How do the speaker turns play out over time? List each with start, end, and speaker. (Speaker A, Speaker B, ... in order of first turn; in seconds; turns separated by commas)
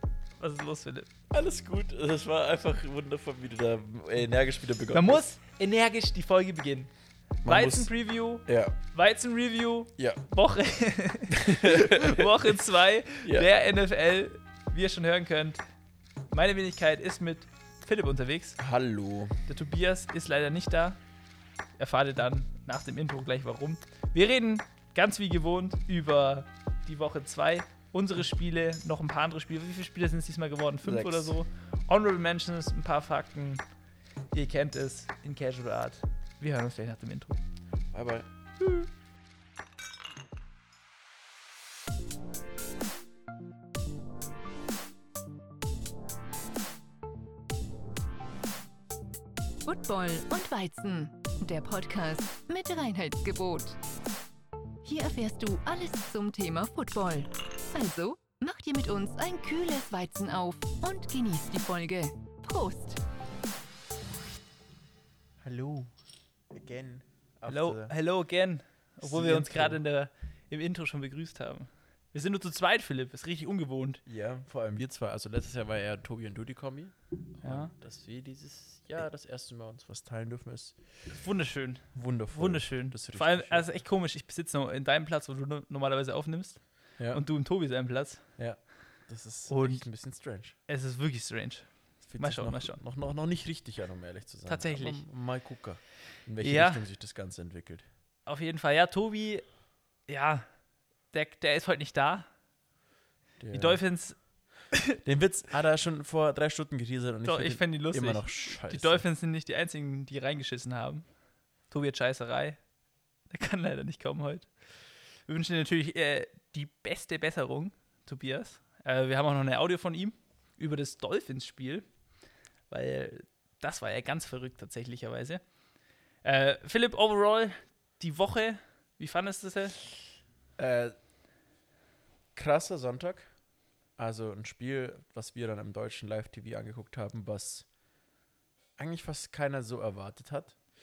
Speaker A: 0.4-1.1, Speaker B: 1.3-5.3, Speaker A: 4.9-6.9, Speaker B: 7.4-8.8, Speaker A: 7.4-15.6, Speaker B: 10.0-10.2, Speaker B: 11.4-12.6, Speaker B: 13.2-13.5, Speaker A: 16.3-18.6, Speaker B: 18.6-19.4, Speaker A: 19.5-21.0, Speaker A: 21.8-33.6, Speaker B: 30.8-31.4, Speaker A: 34.3-37.4, Speaker B: 37.9-38.3, Speaker C: 49.6-53.8, Speaker C: 54.8-63.0, Speaker B: 65.4-66.0, Speaker B: 66.5-68.0, Speaker A: 67.5-74.0, Speaker B: 69.0-69.8, Speaker B: 74.1-81.1, Speaker A: 77.4-77.7, Speaker A: 81.1-88.7, Speaker B: 82.0-83.7, Speaker B: 87.0-87.3, Speaker B: 88.4-90.6, Speaker A: 89.5-89.9, Speaker A: 90.7-92.8, Speaker B: 92.0-97.9, Speaker A: 94.5-95.1, Speaker A: 96.4-96.8, Speaker A: 98.3-99.5, Speaker A: 100.1-100.6, Speaker A: 101.1-102.3, Speaker B: 103.4-103.8, Speaker A: 103.5-105.0, Speaker B: 105.0-109.0, Speaker A: 107.2-112.6, Speaker A: 113.3-114.5, Speaker A: 115.3-121.9, Speaker A: 122.7-125.5, Speaker A: 126.2-129.8, Speaker B: 130.6-130.9, Speaker B: 132.3-133.3, Speaker B: 134.0-137.7, Speaker B: 138.8-140.6